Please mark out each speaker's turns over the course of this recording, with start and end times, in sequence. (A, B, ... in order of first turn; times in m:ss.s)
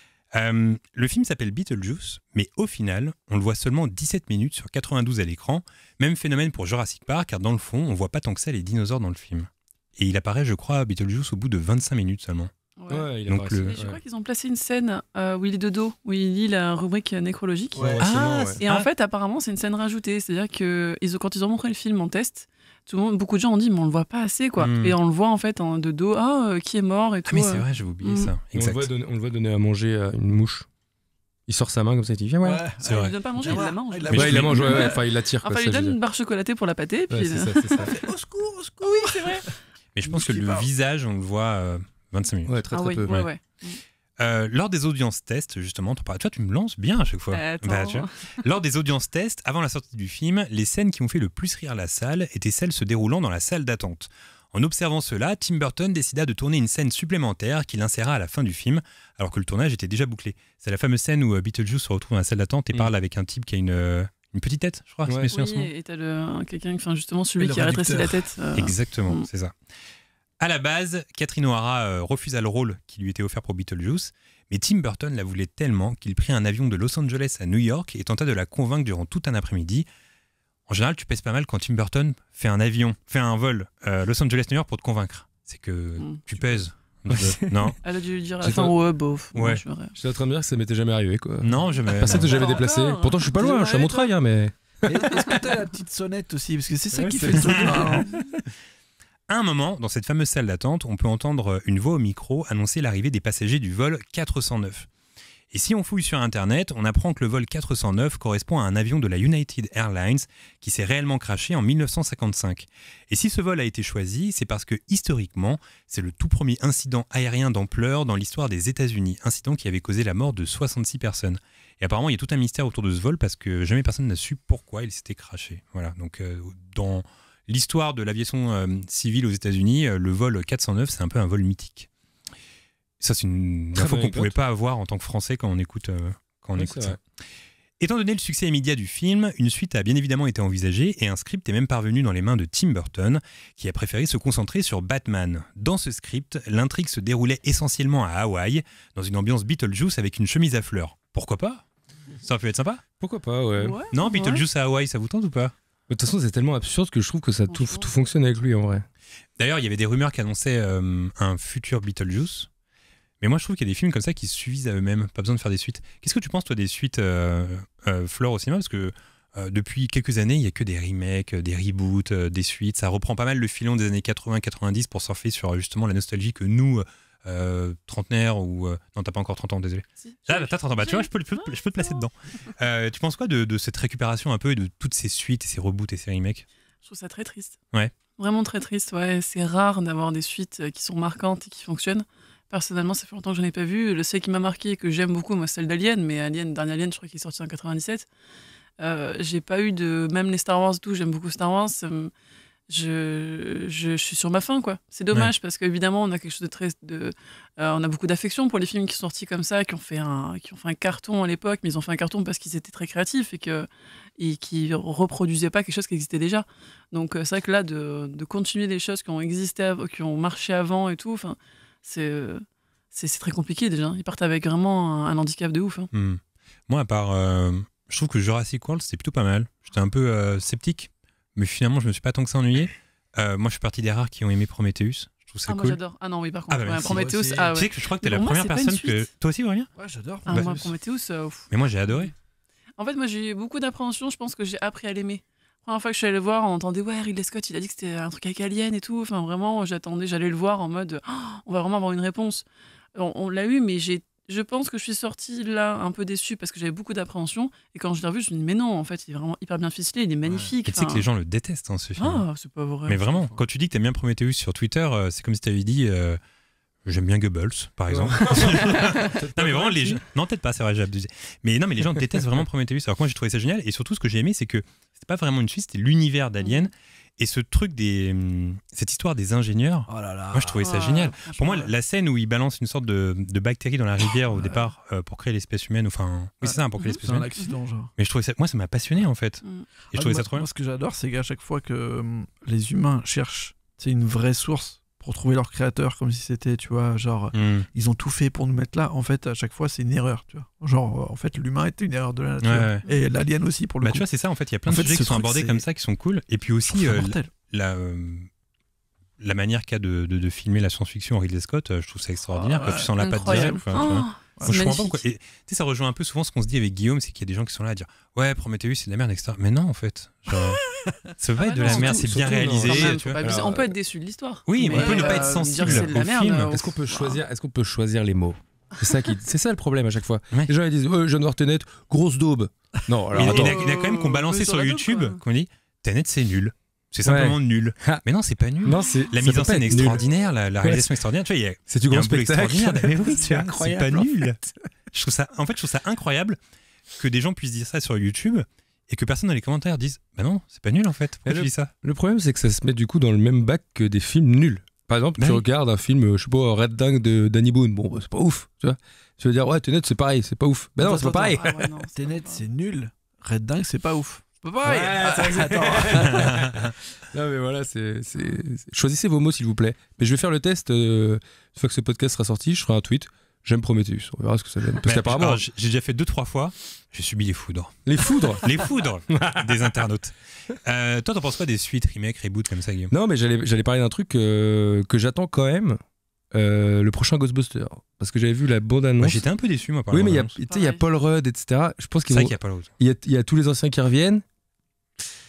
0:00.3-0:12.5 A
0:12.8-0:28.3 B
0:12.9-0:14.0 C
0:13.3-0:13.8 A
0:17.7-0:18.0 D
0:17.8-0:18.6 C
0:18.0-0:18.9 A
0:24.6-0:25.0 A
0:27.3-0:28.9 A
0:28.6-0:30.7 C
0:31.5-0:32.6 C
0:32.4-0:35.0 D
0:32.8-0:33.1 A
0:32.8-0:38.0 B
0:34.1-0:34.5 A
0:34.1-0:36.0 C
0:37.1-0:37.9 C
0:37.8-0:39.5 D
0:38.8-0:39.5 B
0:40.0-0:43.3 A
0:40.0-0:40.7 D
0:42.5-0:43.1 C
0:42.7-0:43.8 B
0:44.2-1:05.7 A
0:47.3-0:48.1 B
1:05.1-1:05.3 C
1:05.3-1:09.3 B
1:07.4-1:08.3 D
1:08.6-1:09.5 A
1:10.4-1:19.9 A
1:20.7-1:27.8 A
1:27.1-1:27.8 C
1:27.8-1:30.0 B
1:28.4-1:28.7 C
1:29.4-1:29.6 A
1:30.0-1:35.4 C
1:31.4-1:32.5 A
1:32.1-1:34.1 B
1:33.4-1:33.8 D
1:34.8-1:38.1 D
1:37.0-1:38.3 C
1:37.0-1:38.0 A
1:39.3-1:44.9 A
1:45.5-2:11.9 A
2:13.0-2:17.0 A
2:13.8-2:14.4 C
2:16.6-2:17.0 C
2:17.8-2:31.6 A
2:32.2-2:32.8 A
2:33.0-2:33.8 C
2:33.6-2:34.4 B
2:33.9-2:35.5 A
2:35.9-2:38.8 C
2:37.5-2:37.9 B
2:39.4-2:42.5 A
2:43.2-3:06.5 A
3:00.0-3:02.0 B
3:06.8-3:07.6 B
3:08.2-3:18.1 B
3:18.8-3:22.1 B
3:22.7-3:33.7 B
3:34.2-3:45.9 B
3:45.9-3:55.8 A
3:55.5-3:59.1 B
3:56.5-3:59.7 A
3:56.8-3:57.5 D
3:59.8-4:00.7 D
4:00.3-4:02.1 B
4:00.3-4:00.6 A
4:01.5-4:02.1 A
4:02.8-4:21.0 B
4:20.4-4:22.2 A
4:22.0-4:23.0 B
4:22.9-4:26.2 A
4:26.8-4:47.3 A
4:27.9-4:30.0 C
4:36.4-4:36.7 B
4:39.9-4:40.7 D
4:40.6-4:41.7 B
4:46.4-4:47.9 D
4:46.8-4:47.6 B
4:48.0-4:50.5 A
4:49.9-5:04.1 D
4:57.3-4:57.7 A
5:02.4-5:02.8 A
5:03.8-5:08.3 A
5:04.7-5:05.1 C
5:04.7-5:05.6 D
5:06.6-5:07.3 D
5:09.2-5:20.6 A
5:12.3-5:14.8 D
5:13.0-5:15.0 B
5:21.2-5:23.3 A
5:21.4-5:27.2 B
5:21.6-5:23.7 C
5:24.5-5:26.7 A
5:24.6-5:25.6 D
5:25.6-5:25.9 C
5:26.5-5:33.6 C
5:33.1-5:44.4 A
5:33.2-5:35.2 B
5:37.0-5:38.0 C
5:38.6-5:40.1 C
5:40.6-5:41.0 C
5:41.7-5:44.5 C
5:44.9-5:46.4 A
5:46.9-5:51.7 A
5:51.2-6:01.6 C
5:55.2-5:55.4 A
6:00.8-6:02.4 B
6:01.9-6:06.5 D
6:04.6-6:15.4 C
6:06.1-6:06.6 A
6:14.8-6:17.8 A
6:17.8-6:18.6 C
6:18.4-6:22.9 A
6:19.1-6:19.8 C
6:22.9-6:25.8 C
6:26.3-6:29.3 C
6:29.0-6:30.4 A
6:29.9-6:34.2 C
6:30.5-6:30.8 B
6:32.1-6:32.7 A